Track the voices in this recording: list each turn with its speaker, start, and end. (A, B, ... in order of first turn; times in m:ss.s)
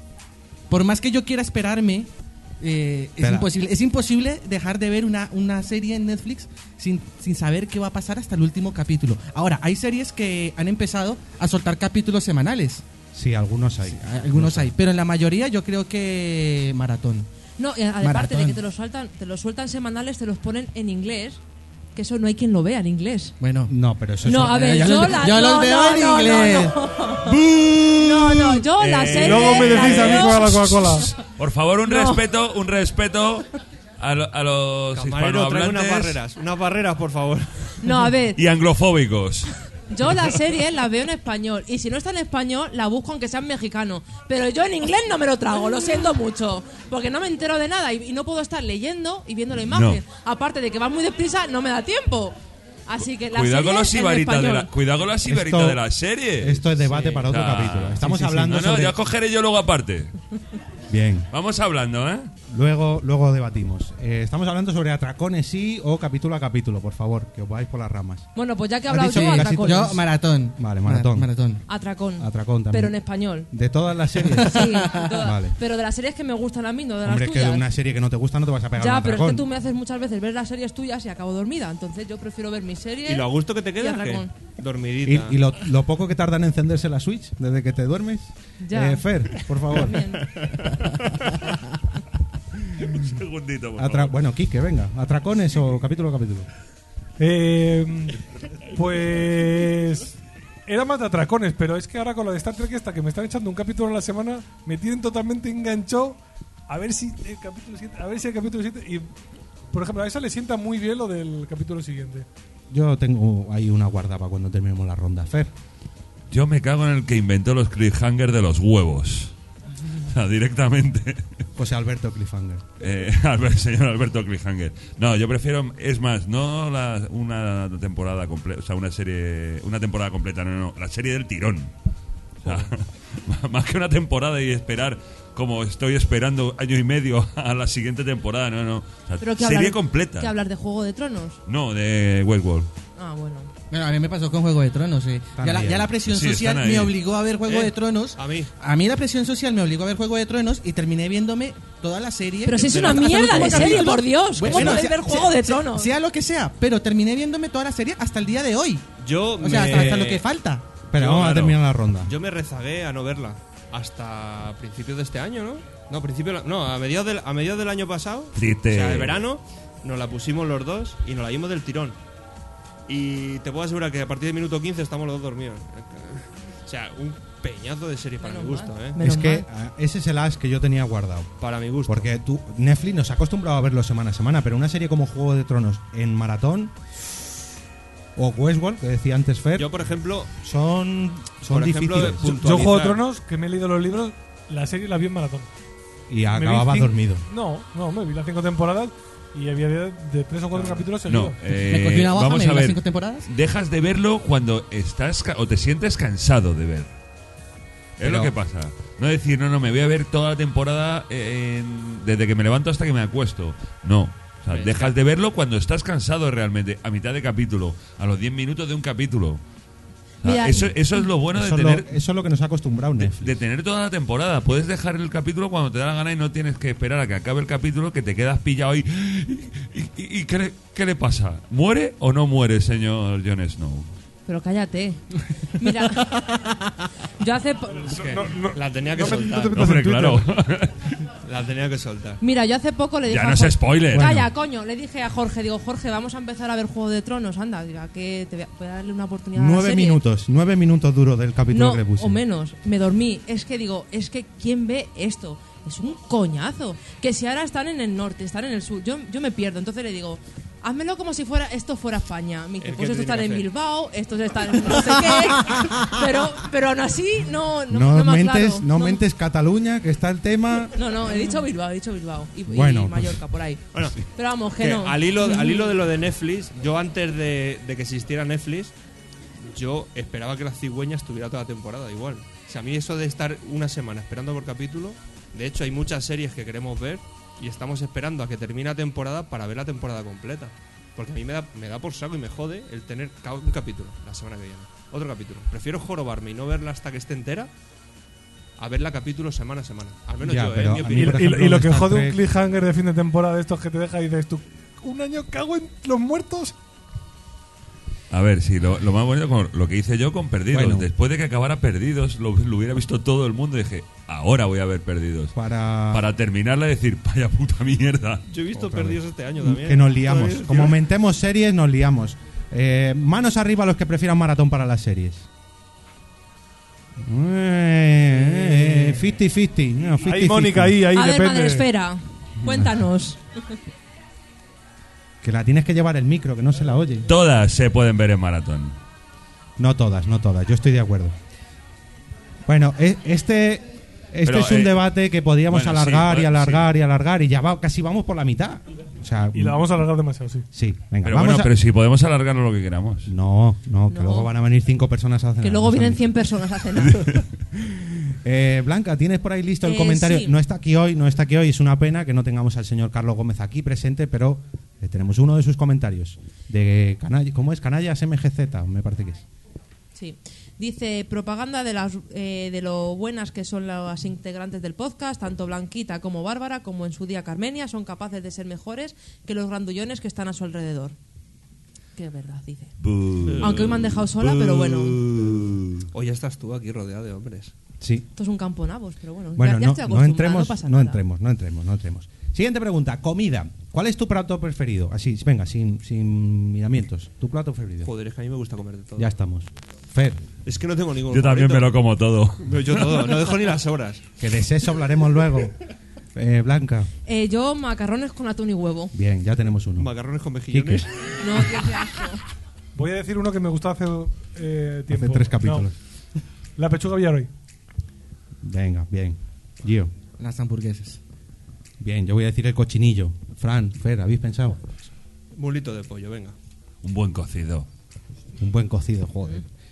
0:00.7-0:12.8 A
0:03.2-0:03.5 B
0:13.1-0:14.7 B
0:13.9-0:17.3 A
0:17.6-0:21.4 C
0:18.0-0:18.6 A
0:22.0-0:23.4 C
0:23.4-0:23.7 A
0:23.7-0:25.1 B
0:24.2-0:27.4 C
0:24.3-0:28.6 A
0:28.0-0:31.1 C
0:28.8-0:30.2 D
0:29.1-0:31.1 E
0:31.2-0:33.5 F
0:31.8-0:32.2 C
0:34.0-0:36.2 F
0:34.9-0:37.9 D
0:37.8-0:38.4 C
0:38.4-0:39.5 F
0:39.9-0:54.7 C
0:49.7-0:50.0 F
0:53.3-1:00.1 F
0:55.3-0:55.8 B
0:56.4-0:59.0 B
1:00.9-1:01.3 B
1:01.3-1:02.3 F
1:02.5-1:08.3 B
1:08.4-1:10.0 C
1:08.9-1:11.3 B
1:09.0-1:11.6 A
1:11.7-1:13.5 C
1:12.2-1:15.6 B
1:14.4-1:17.7 C
1:14.6-1:14.9 A
1:17.0-1:19.5 B
1:18.8-1:24.3 C
1:23.0-1:25.4 D
1:25.0-1:30.1 B
1:28.6-1:30.3 C
1:32.7-1:34.2 F
1:33.8-1:36.5 B
1:37.2-1:38.2 E
1:38.7-1:49.1 E
1:49.7-1:52.3 E
1:52.7-1:55.5 B
1:56.3-1:59.3 F
2:00.0-2:01.2 F
2:01.6-2:02.6 B
2:02.8-2:11.7 F
2:12.4-2:12.7 D
2:12.4-2:20.3 F
2:19.2-2:21.4 C
2:21.5-2:22.7 F
2:23.0-2:23.5 C
2:23.7-2:38.9 A
2:25.4-2:25.9 B
2:26.1-2:27.0 F
2:27.5-2:28.5 D
2:32.5-2:35.9 C
2:32.7-2:33.8 D
2:34.5-2:34.8 B
2:39.0-2:40.2 D
2:39.4-2:40.7 A
2:39.5-2:40.2 B
2:40.9-2:42.1 B
2:40.9-2:52.0 D
2:48.4-2:49.2 F
2:52.9-2:59.0 D
2:58.2-2:59.5 C
2:59.0-3:01.3 B
3:01.4-3:02.1 D
3:01.9-3:06.7 B
3:08.2-3:09.8 B
3:09.6-3:10.3 D
3:10.4-3:12.3 B
3:11.5-3:13.0 D
3:12.0-3:15.5 E
3:16.1-3:17.3 B
3:16.3-3:21.4 E
3:20.5-3:20.8 D
3:21.1-3:26.9 F
3:21.5-3:23.3 A
3:28.0-3:39.4 F
3:28.0-3:28.3 B
3:34.5-3:34.9 D
3:40.2-3:41.0 C
3:40.2-3:41.9 F
3:41.3-3:43.4 B
3:43.0-3:53.9 F
3:54.3-3:56.3 C
3:57.2-3:57.9 C
3:57.9-4:00.3 E
3:57.9-3:59.6 D
3:59.5-4:01.1 F
4:01.2-4:02.2 D
4:02.2-4:10.0 C
4:03.1-4:04.3 F
4:04.0-4:04.2 B
4:09.4-4:12.2 B
4:11.5-4:29.0 C
4:22.6-4:23.5 D
4:27.7-4:30.8 B
4:30.8-4:35.7 C
4:32.5-4:33.2 B
4:33.7-4:34.0 D
4:34.6-4:38.7 D
4:39.5-4:57.5 D
4:58.6-5:01.2 D
5:00.2-5:02.2 B
5:00.9-5:06.5 E
5:08.1-5:15.3 F
5:10.5-5:10.9 B
5:15.4-5:16.1 B
5:15.9-5:18.2 F
5:18.3-5:20.7 D
5:18.6-5:25.3 B
5:27.0-5:30.8 B
5:30.0-5:31.7 E
5:30.9-5:33.4 C
5:32.4-5:32.7 B
5:35.2-5:37.1 B
5:37.1-5:38.7 F
5:39.6-5:41.1 B
5:42.5-5:49.8 B
5:44.2-5:44.8 F
5:45.5-5:46.7 F
5:49.3-5:50.5 E
5:50.5-5:51.5 B
5:51.0-5:53.1 F
5:53.1-5:56.0 B
5:53.9-5:54.3 C
5:55.4-5:57.2 C
5:58.2-6:09.2 B
5:59.6-6:00.4 C
6:10.0-6:21.0 C
6:22.0-6:22.7 C
6:22.8-6:25.8 F
6:23.2-6:23.9 D
6:23.4-6:25.0 C
6:25.2-6:27.5 D
6:27.8-6:28.1 B
6:28.2-6:31.0 C
6:29.4-6:37.9 B
6:37.8-6:39.1 D
6:39.0-6:40.2 B
6:40.4-6:41.7 D
6:41.1-6:43.1 F
6:42.4-6:44.0 D
6:44.2-6:45.6 B
6:46.2-6:46.9 B
6:47.1-6:48.9 C
6:48.9-6:49.9 B
6:49.8-6:50.9 D
6:50.5-6:50.9 B
6:51.2-6:52.2 C
6:52.8-6:55.7 E
6:54.9-6:55.7 B
6:56.6-6:57.3 E
6:58.4-6:59.9 B
7:00.2-7:01.0 A
7:01.8-7:04.7 B
7:05.3-7:06.4 D
7:06.8-7:07.7 F
7:08.4-7:09.5 B